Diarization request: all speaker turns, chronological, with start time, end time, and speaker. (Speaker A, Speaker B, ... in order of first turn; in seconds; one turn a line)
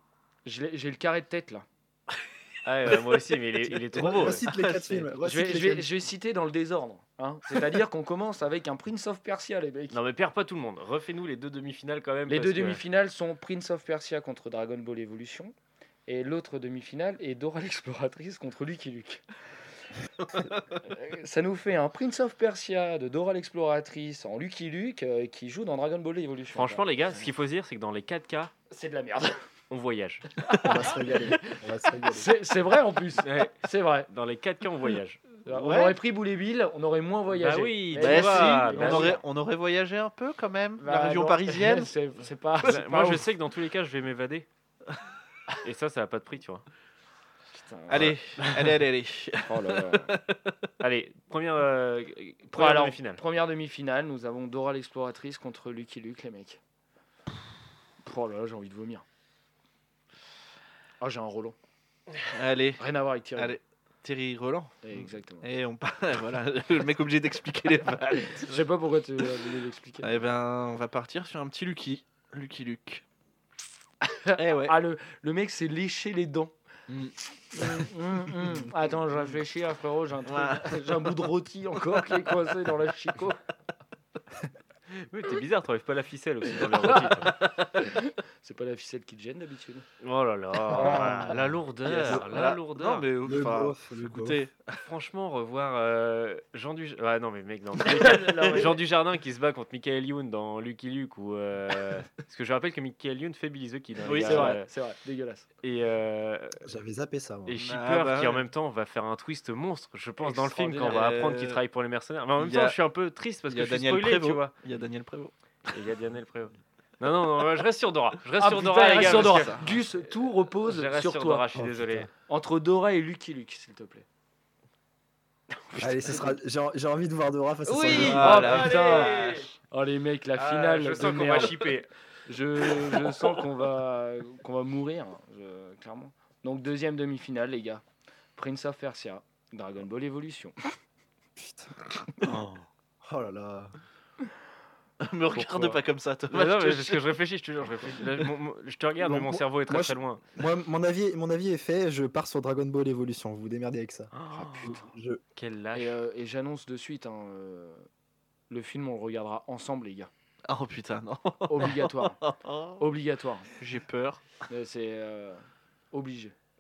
Speaker A: 0.4-1.6
Speaker B: 2.6-4.5
Speaker C: 3.9-5.9
Speaker D: 4.2-5.1
Speaker A: 5.2-10.0
Speaker B: 9.9-12.8
Speaker A: 12.3-15.5
Speaker A: 16.1-19.2
Speaker D: 20.2-20.6
Speaker A: 20.8-26.9
Speaker B: 26.5-28.5
Speaker A: 28.7-29.4
Speaker B: 29.7-30.3
Speaker A: 30.5-30.9
Speaker C: 30.6-32.3
Speaker A: 32.1-34.1
Speaker B: 33.2-35.4
Speaker A: 35.5-39.2
Speaker D: 35.5-36.0
Speaker B: 37.3-39.2
Speaker D: 38.0-41.9
Speaker A: 40.8-43.2
Speaker B: 42.6-44.5
Speaker B: 45.6-46.6
Speaker A: 47.5-48.2
Speaker D: 47.9-50.5
Speaker A: 49.5-50.1
Speaker B: 50.8-53.2
Speaker A: 52.5-56.6
Speaker A: 58.0-59.0
Speaker A: 61.0-61.5
Speaker D: 62.3-62.8
Speaker A: 62.8-63.6
Speaker D: 63.4-68.4
Speaker A: 64.8-65.5
Speaker A: 68.0-70.2
Speaker D: 70.0-73.0
Speaker A: 74.0-76.5
Speaker D: 74.3-74.7
Speaker D: 76.9-77.8
Speaker A: 77.5-83.4
Speaker D: 80.3-80.9
Speaker B: 84.9-87.3
Speaker A: 87.7-89.8
Speaker B: 90.0-93.1
Speaker C: 90.7-91.4
Speaker D: 90.8-94.7
Speaker C: 92.0-92.2
Speaker C: 93.2-94.4
Speaker B: 94.8-104.6
Speaker A: 97.9-98.7
Speaker D: 104.0-104.5
Speaker A: 104.1-105.5
Speaker B: 105.6-106.6
Speaker C: 106.6-107.5
Speaker B: 107.5-114.5
Speaker D: 107.5-108.4
Speaker A: 110.2-111.0
Speaker D: 110.8-111.6
Speaker D: 112.4-112.8
Speaker D: 113.5-115.3
Speaker B: 115.7-119.8
Speaker A: 118.4-121.4
Speaker D: 118.9-119.7
Speaker B: 120.6-122.1
Speaker C: 121.5-122.1
Speaker A: 122.3-124.0
Speaker A: 125.7-126.4
Speaker C: 125.8-128.4
Speaker B: 127.7-129.5
Speaker A: 127.8-131.6
Speaker D: 127.9-129.2
Speaker B: 130.4-131.9
Speaker A: 132.3-137.8
Speaker B: 132.7-133.1
Speaker A: 138.3-140.5
Speaker C: 141.4-142.3
Speaker C: 143.0-143.7
Speaker D: 145.0-147.0
Speaker A: 145.3-145.7
Speaker B: 146.3-150.2
Speaker D: 147.8-148.2
Speaker C: 149.0-155.2
Speaker B: 154.3-154.7
Speaker A: 154.3-154.8
Speaker B: 155.3-156.0
Speaker A: 155.7-157.8
Speaker A: 158.5-160.1
Speaker D: 160.5-162.8
Speaker A: 161.5-162.2
Speaker A: 162.8-163.5
Speaker D: 163.6-164.2
Speaker A: 164.5-166.3